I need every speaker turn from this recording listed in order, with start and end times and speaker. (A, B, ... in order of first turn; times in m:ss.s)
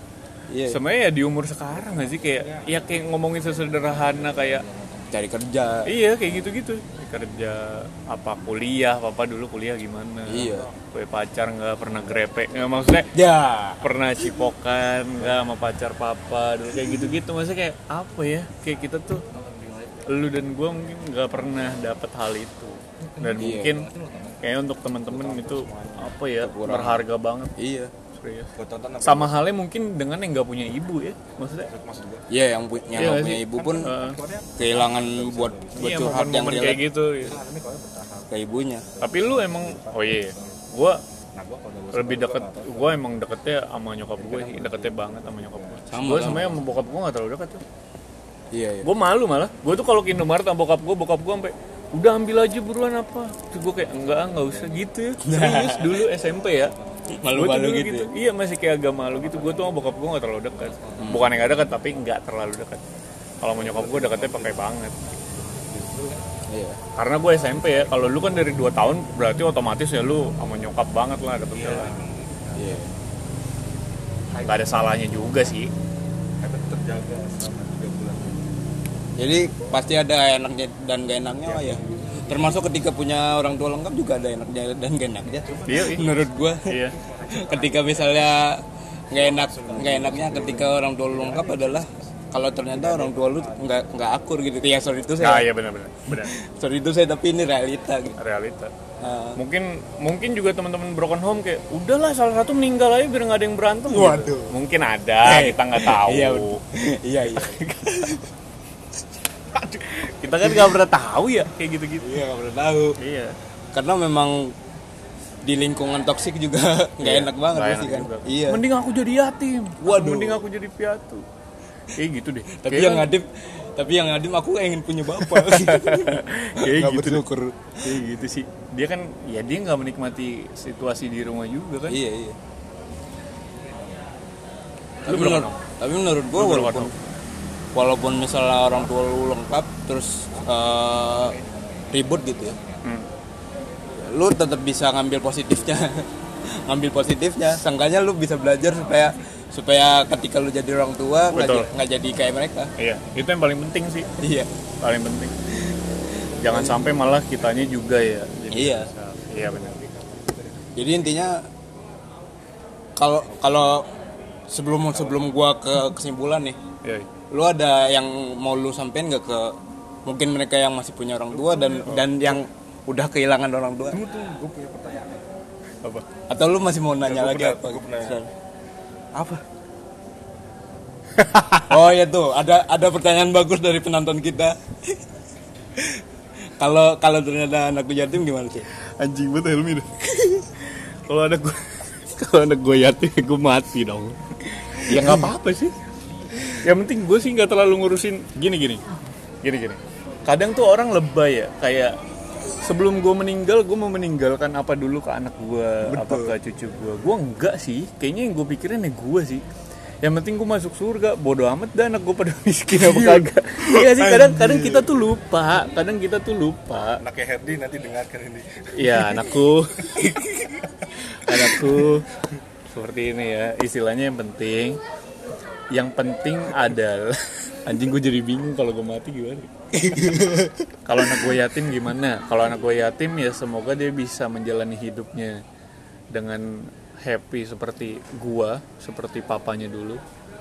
0:00.5-0:00.8 A
0:00.7-0:04.6 B
0:01.9-0:02.9 C
0:03.9-0:05.0 C
0:05.1-0:05.9 A
0:05.8-0:13.1 B
0:10.3-0:10.7 A
0:13.1-0:13.8 A
0:13.8-0:19.2 B
0:19.3-0:20.1 C
0:20.1-0:23.9 B
0:23.0-0:24.4 C
0:23.4-0:23.8 A
0:24.4-0:27.5 B
0:25.0-0:26.2 C
0:26.4-0:27.0 A
0:27.6-0:27.9 A
0:28.1-0:31.7 B
0:28.6-0:29.4 C
0:31.6-0:32.3 C
0:32.3-0:33.9 A
0:32.9-0:34.2 B
0:33.5-0:36.1 C
0:34.6-0:36.8 A
0:35.8-0:37.4 B
0:37.1-0:40.7 C
0:38.3-0:38.8 A
0:39.0-0:41.0 B
0:41.3-0:43.1 C
0:41.9-0:47.6 B
0:44.2-0:46.4 C
0:45.9-0:46.6 A
0:48.5-0:48.9 A
0:48.8-0:56.7 B
0:54.0-0:54.7 C
0:55.2-0:56.0 A
0:57.1-0:58.1 A
0:57.3-1:02.8 B
0:59.2-0:59.7 C
1:00.8-1:01.6 C
1:01.0-1:01.3 A
1:03.4-1:05.0 B
1:03.5-1:04.6 C
1:05.3-1:06.2 C
1:06.5-1:06.8 A
1:07.0-1:12.0 B
1:11.5-1:12.8 C
1:12.6-1:12.9 A
1:14.3-1:15.0 C
1:14.4-1:15.7 B
1:16.4-1:18.6 C
1:19.2-1:35.5 A
1:21.4-1:22.7 C
1:25.2-1:28.4 C
1:25.6-1:27.0 B
1:29.1-1:33.9 C
1:35.2-1:36.3 B
1:36.0-1:38.2 A
1:38.2-1:38.7 B
1:39.0-1:39.4 A
1:39.4-1:46.6 B
1:43.9-1:44.5 A
1:45.2-1:48.2 A
1:47.3-1:48.2 B
1:49.5-1:52.2 B
1:52.0-1:53.0 A
1:53.0-1:53.4 B
1:53.7-1:54.5 A
1:55.4-1:58.6 A
1:57.0-2:01.2 B
1:59.8-2:00.4 A
2:01.9-2:03.1 B
2:02.5-2:08.0 A
2:05.1-2:07.2 B
2:07.8-2:12.0 B
2:11.9-2:12.4 A
2:15.0-2:16.9 A
2:15.1-2:15.5 B
2:16.3-2:16.9 B
2:17.7-2:21.4 A
2:20.4-2:21.4 C
2:21.9-2:22.6 A
2:22.8-2:23.1 B
2:24.0-2:32.7 A
2:31.3-2:31.7 B
2:32.8-2:34.1 B
2:34.2-2:34.5 A
2:34.8-2:35.3 B
2:36.4-2:39.8 B
2:36.5-2:36.8 A
2:38.5-2:38.9 A
2:39.3-2:40.7 C
2:40.8-2:41.4 A
2:43.0-2:43.9 A
2:44.5-2:46.6 A
2:46.8-2:47.1 B
2:47.3-2:54.0 A
2:51.3-2:52.3 C
2:53.9-2:55.4 C
2:55.8-2:56.1 B
2:56.3-2:58.3 A
2:57.0-2:58.2 C
3:01.2-3:01.6 B
3:01.6-3:05.0 A
3:05.8-3:06.0 A
3:06.6-3:08.6 A
3:09.0-3:15.7 B
3:16.6-3:18.8 B
3:19.4-3:22.0 B
3:22.6-3:29.4 B
3:25.8-3:26.3 A
3:30.0-3:37.0 B
3:32.8-3:34.8 A
3:37.0-3:39.2 C
3:38.7-3:40.1 B
3:40.0-3:40.6 A
3:41.1-3:42.1 B
3:42.7-3:44.8 B
3:45.7-3:50.2 B
3:49.7-3:51.2 A
3:50.8-3:55.4 B
3:56.1-4:00.0 B